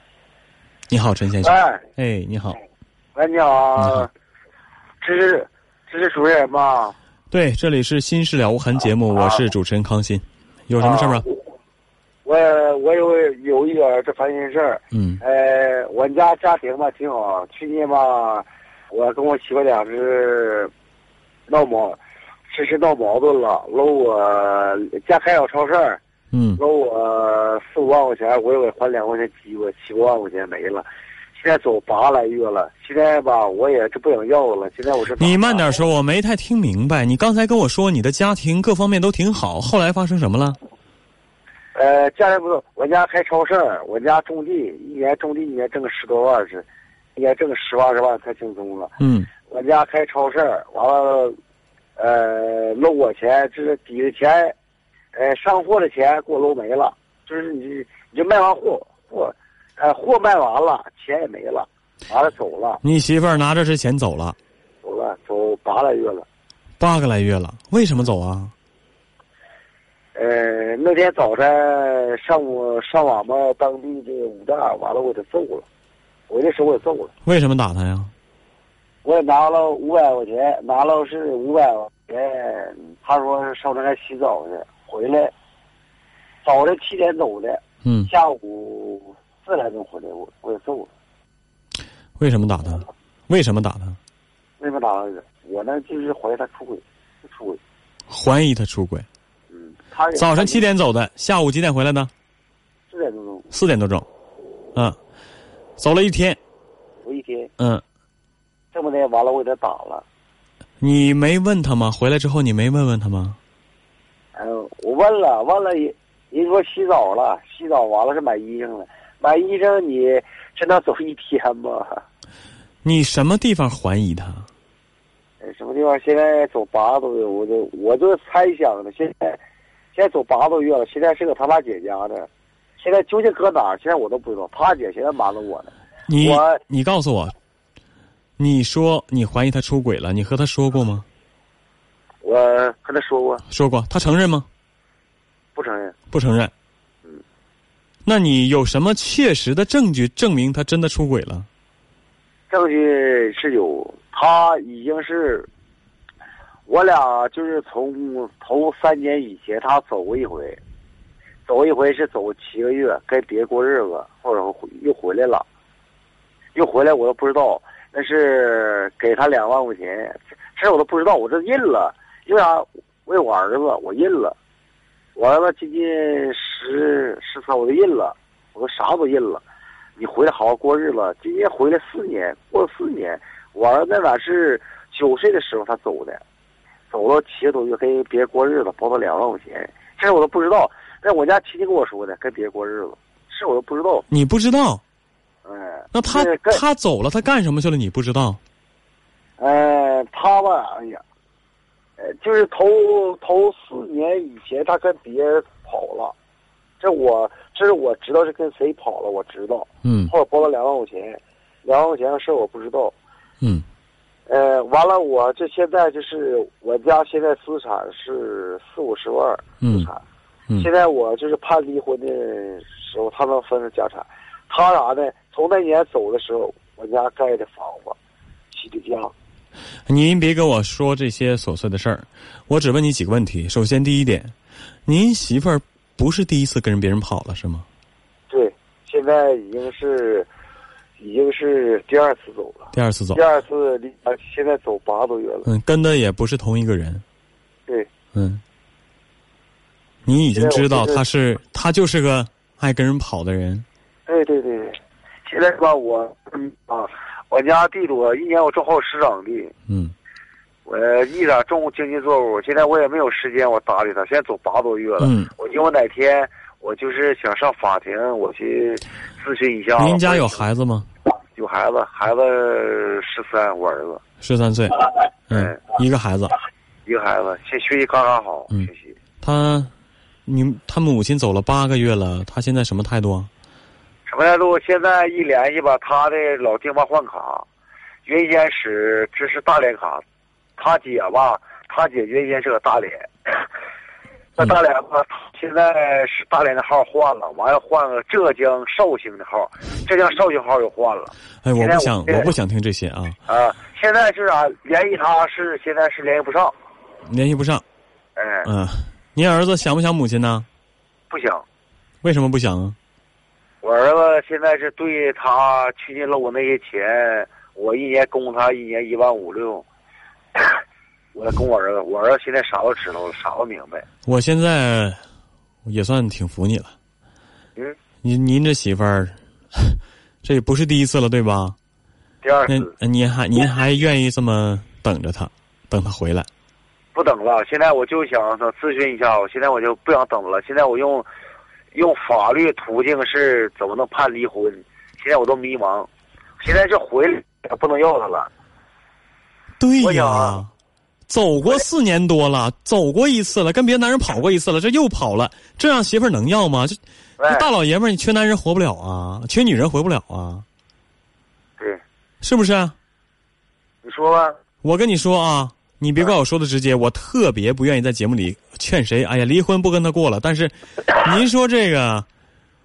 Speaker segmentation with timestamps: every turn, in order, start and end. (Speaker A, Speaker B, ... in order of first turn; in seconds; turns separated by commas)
Speaker A: 0.9-2.6, Speaker B: 1.4-1.8, Speaker B: 3.1-4.1, Speaker A: 3.8-4.1, Speaker B: 5.0-6.9, Speaker A: 7.3-11.3, Speaker B: 10.8-11.4, Speaker B: 12.2-20.7, Speaker A: 14.9-15.2, Speaker B: 21.5-22.0, Speaker B: 22.5-26.0, Speaker A: 26.3-26.6, Speaker B: 26.6-35.8, Speaker A: 35.2-40.6, Speaker B: 41.7-48.9, Speaker A: 49.0-49.3, Speaker B: 49.5-51.4, Speaker B: 52.0-54.5, Speaker B: 55.1-62.8, Speaker A: 62.8-64.3, Speaker B: 64.8-66.2, Speaker A: 66.8-68.5, Speaker B: 70.1-75.6, Speaker B: 76.3-77.1, Speaker A: 77.2-78.1, Speaker B: 79.0-85.3, Speaker B: 86.4-90.9, Speaker A: 87.8-88.1, Speaker A: 92.2-94.0, Speaker B: 94.6-97.6, Speaker A: 98.1-99.0, Speaker B: 99.5-100.6, Speaker A: 100.1-102.1, Speaker B: 102.9-103.5, Speaker A: 103.5-104.0, Speaker A: 105.8-106.4, Speaker B: 107.0-107.5, Speaker B: 108.7-110.0, Speaker A: 110.8-113.4, Speaker B: 114.3-122.0, Speaker A: 122.8-124.5, Speaker B: 125.4-129.4, Speaker B: 129.9-136.6, Speaker A: 136.1-137.3, Speaker A: 138.4-141.1, Speaker B: 142.2-143.4, Speaker A: 143.5-144.5, Speaker B: 145.5-145.9, Speaker A: 146.1-146.5, Speaker A: 148.0-151.5, Speaker B: 152.5-155.5, Speaker B: 156.7-160.6, Speaker B: 161.5-165.4, Speaker B: 166.5-174.3, Speaker B: 175.2-179.4, Speaker B: 180.0-186.2, Speaker B: 186.9-194.1, Speaker A: 194.1-194.8, Speaker B: 195.4-196.6, Speaker A: 195.9-198.4, Speaker B: 199.4-201.0, Speaker B: 202.0-206.1, Speaker B: 206.8-212.9, Speaker A: 209.8-210.1, Speaker B: 214.3-220.0, Speaker A: 219.6-219.9, Speaker B: 220.6-228.0, Speaker B: 228.5-229.1, Speaker A: 229.9-234.3, Speaker A: 234.8-237.7, Speaker B: 238.3-240.3, Speaker B: 241.0-245.5, Speaker A: 242.7-243.2, Speaker A: 245.4-247.0, Speaker A: 248.1-248.4, Speaker A: 250.1-253.6, Speaker B: 250.3-251.0, Speaker B: 254.1-259.5, Speaker A: 259.7-259.9, Speaker B: 260.6-270.4, Speaker A: 265.0-265.3, Speaker A: 269.8-270.9, Speaker B: 271.3-274.0, Speaker A: 274.2-276.3, Speaker B: 275.3-275.6, Speaker B: 276.9-278.9, Speaker A: 279.2-279.7, Speaker A: 280.3-283.3, Speaker B: 284.1-287.4, Speaker B: 288.1-290.0, Speaker B: 290.6-293.4, Speaker B: 294.4-302.3, Speaker A: 301.4-303.1, Speaker B: 303.3-306.5, Speaker A: 307.1-307.6, Speaker B: 308.1-308.5, Speaker A: 308.4-310.4, Speaker B: 311.1-311.4, Speaker A: 312.0-312.8, Speaker B: 313.6-319.6, Speaker B: 321.1-323.8, Speaker A: 324.1-325.0, Speaker A: 325.6-326.7, Speaker A: 328.0-331.6, Speaker B: 332.2-332.7, Speaker A: 332.5-336.3, Speaker B: 336.9-341.1, Speaker B: 341.7-345.9, Speaker B: 346.4-348.3, Speaker A: 349.6-350.5, Speaker B: 349.8-350.4, Speaker A: 351.1-360.4, Speaker B: 357.2-357.5, Speaker A: 362.2-362.7, Speaker B: 363.8-364.3, Speaker A: 364.6-372.1